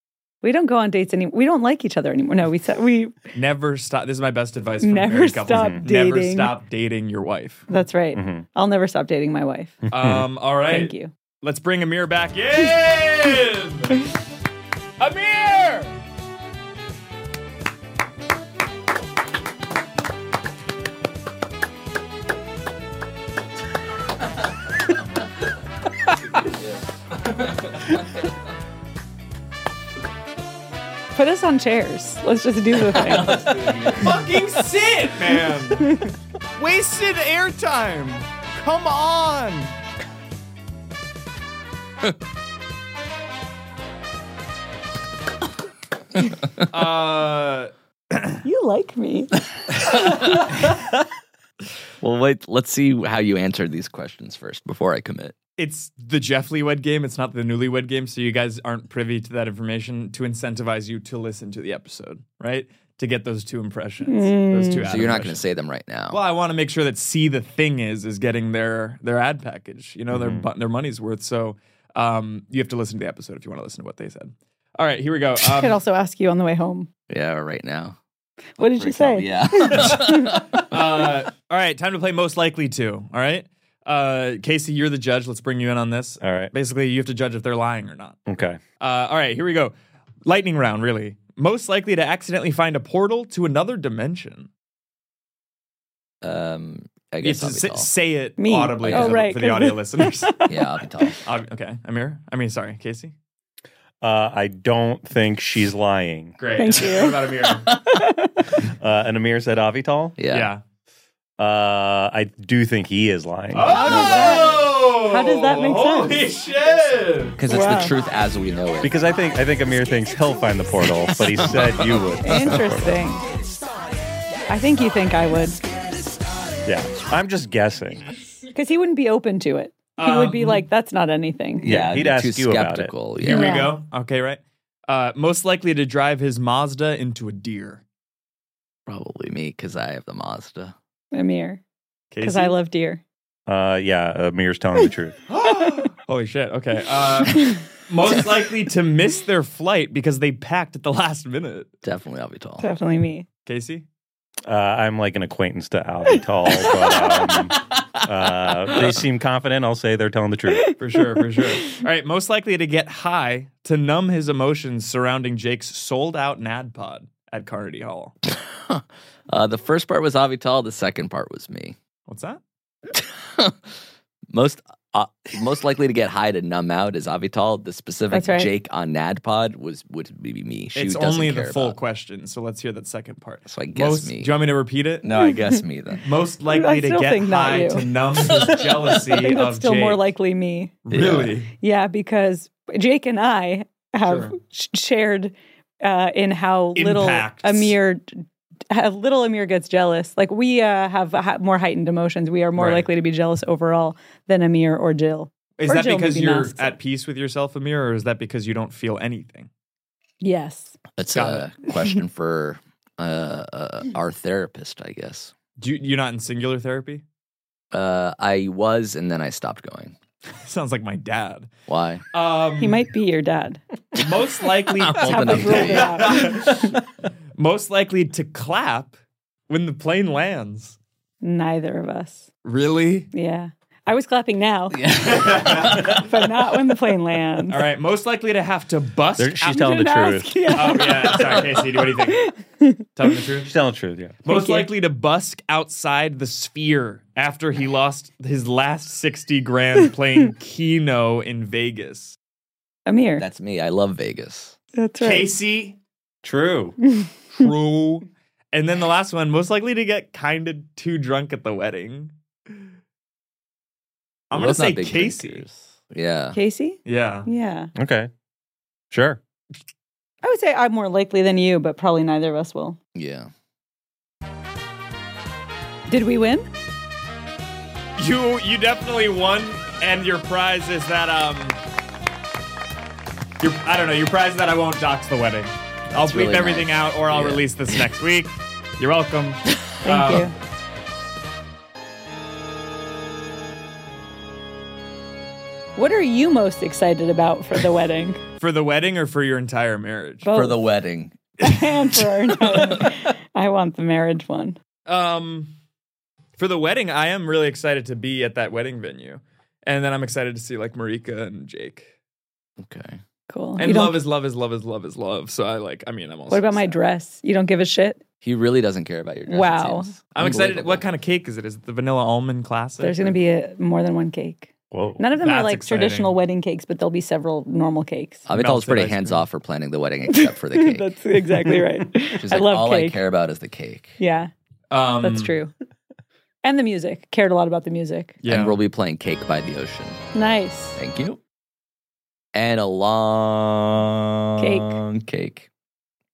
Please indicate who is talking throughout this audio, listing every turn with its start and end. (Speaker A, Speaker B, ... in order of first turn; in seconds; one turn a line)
Speaker A: 0.4-3.3
Speaker B: 3.3-7.7
Speaker A: 4.8-6.5
Speaker C: 5.5-5.8
Speaker A: 7.7-9.8
Speaker C: 8.2-8.4
Speaker B: 9.9-14.0
Speaker C: 9.9-10.3
Speaker A: 10.7-11.1
Speaker B: 15.0-15.9
Speaker A: 31.1-33.7
Speaker D: 33.0-34.2
Speaker B: 33.9-39.8
Speaker A: 35.8-36.1
Speaker B: 46.7-48.4
Speaker A: 48.4-49.3
Speaker D: 52.0-55.4
Speaker B: 55.6-65.5
Speaker A: 64.1-64.9
Speaker D: 64.9-66.2
Speaker B: 66.1-75.8
Speaker C: 70.1-70.5
Speaker A: 75.5-76.9
Speaker D: 77.1-78.0
Speaker A: 78.6-80.5
Speaker D: 78.8-81.0
Speaker B: 80.5-88.2
Speaker C: 86.2-86.5
Speaker C: 88.3-88.6
Speaker B: 88.8-89.7
Speaker B: 90.2-94.5
Speaker D: 96.2-97.9
Speaker B: 97.2-100.4
Speaker A: 98.4-100.6
Speaker D: 98.8-99.3
Speaker D: 100.5-101.2
Speaker B: 101.2-103.1
Speaker C: 104.0-106.4
Speaker B: 106.4-107.7
Speaker A: 106.6-108.5
Speaker C: 108.5-110.2
Speaker D: 110.2-110.5
Speaker B: 110.3-110.6
Speaker C: 111.4-113.7
Speaker B: 113.5-117.4
Speaker A: 113.6-116.2
Speaker D: 113.8-114.6
Speaker D: 117.4-119.0
Speaker A: 117.5-117.9
Speaker C: 118.8-123.0
Speaker A: 122.2-123.2
Speaker A: 124.5-125.6
Speaker C: 126.7-128.1
Speaker A: 128.5-131.9
Speaker B: 130.0-130.7
Speaker D: 131.6-133.7
Speaker C: 131.6-132.9
Speaker B: 133.2-137.8
Speaker A: 133.3-133.8
Speaker D: 138.9-140.7
Speaker A: 141.1-141.6
Speaker B: 142.1-142.6
Speaker A: 142.2-143.0
Speaker C: 143.5-145.2
Speaker B: 145.3-151.7
Speaker D: 151.8-152.7
Speaker A: 152.6-153.3
Speaker B: 153.5-153.8
Speaker C: 154.5-160.8
Speaker B: 160.8-168.2
Speaker D: 168.3-171.8
Speaker B: 172.1-172.4
Speaker D: 172.9-173.6
Speaker D: 174.3-181.8
Speaker A: 178.1-178.5
Speaker B: 180.8-185.1
Speaker D: 183.5-184.3
Speaker D: 185.0-186.1
Speaker B: 186.0-190.0
Speaker A: 186.5-187.9
Speaker A: 188.9-190.8
Speaker B: 190.8-191.5
Speaker D: 190.9-191.4
Speaker A: 191.6-206.8
Speaker B: 194.0-194.4
Speaker B: 196.8-197.8
Speaker B: 202.6-202.9
Speaker B: 205.6-209.5
Speaker A: 210.2-210.8
Speaker D: 211.0-215.3
Speaker B: 211.1-211.5
Speaker B: 215.6-217.0
Speaker D: 217.7-219.9
Speaker B: 220.4-221.5
Speaker D: 221.7-222.0
Speaker B: 222.1-222.8
Speaker A: 222.6-223.6
Speaker B: 224.0-226.8
Speaker D: 224.8-226.7
Speaker A: 224.9-226.7
Speaker B: 227.4-229.0
Speaker B: 229.5-230.8
Speaker A: 231.2-232.3
Speaker B: 232.4-233.1
Speaker A: 233.1-234.8
Speaker D: 234.7-236.1
Speaker B: 235.0-236.0
Speaker A: 235.4-237.6
Speaker B: 237.5-239.8
Speaker C: 239.2-240.9
Speaker A: 239.5-242.8
Speaker B: 240.5-242.3
Speaker B: 242.9-243.5
Speaker C: 243.5-244.2
Speaker B: 244.2-252.2
Speaker A: 244.3-244.7
Speaker A: 252.9-253.2
Speaker D: 253.2-254.6
Speaker A: 254.8-255.3
Speaker B: 255.0-255.8
Speaker C: 256.2-256.8
Speaker A: 256.8-257.1
Speaker B: 257.4-262.6
Speaker B: 264.3-265.4
Speaker D: 264.3-266.4
Speaker A: 266.3-267.7
Speaker B: 266.9-267.3
Speaker C: 267.8-268.1
Speaker C: 268.9-269.2
Speaker A: 270.2-272.8
Speaker D: 272.9-273.3
Speaker A: 275.9-276.5
Speaker B: 278.0-281.6
Speaker B: 283.4-290.3
Speaker D: 285.9-287.9
Speaker A: 289.8-290.3
Speaker A: 295.8-298.2
Speaker B: 298.4-300.4
Speaker A: 300.2-300.6
Speaker D: 300.3-301.2
Speaker A: 301.4-304.6
Speaker B: 304.9-305.5
Speaker B: 306.4-311.9
Speaker D: 312.6-313.0
Speaker A: 313.3-314.0
Speaker B: 313.6-316.8
Speaker A: 316.3-318.0
Speaker D: 318.2-320.8
Speaker A: 319.3-319.9
Speaker B: 320.1-323.2
Speaker A: 322.8-328.3
Speaker C: 324.7-325.0
Speaker B: 325.2-326.2
Speaker D: 328.3-330.9
Speaker B: 328.3-329.2
Speaker A: 330.1-333.0
Speaker D: 332.1-334.0
Speaker A: 334.0-334.3
Speaker B: 334.7-335.4
Speaker A: 335.0-335.5
Speaker A: 336.4-338.2
Speaker B: 338.2-338.6
Speaker D: 338.2-340.0
Speaker A: 340.1-340.8
Speaker D: 340.8-341.2
Speaker D: 342.3-345.5
Speaker A: 344.4-344.8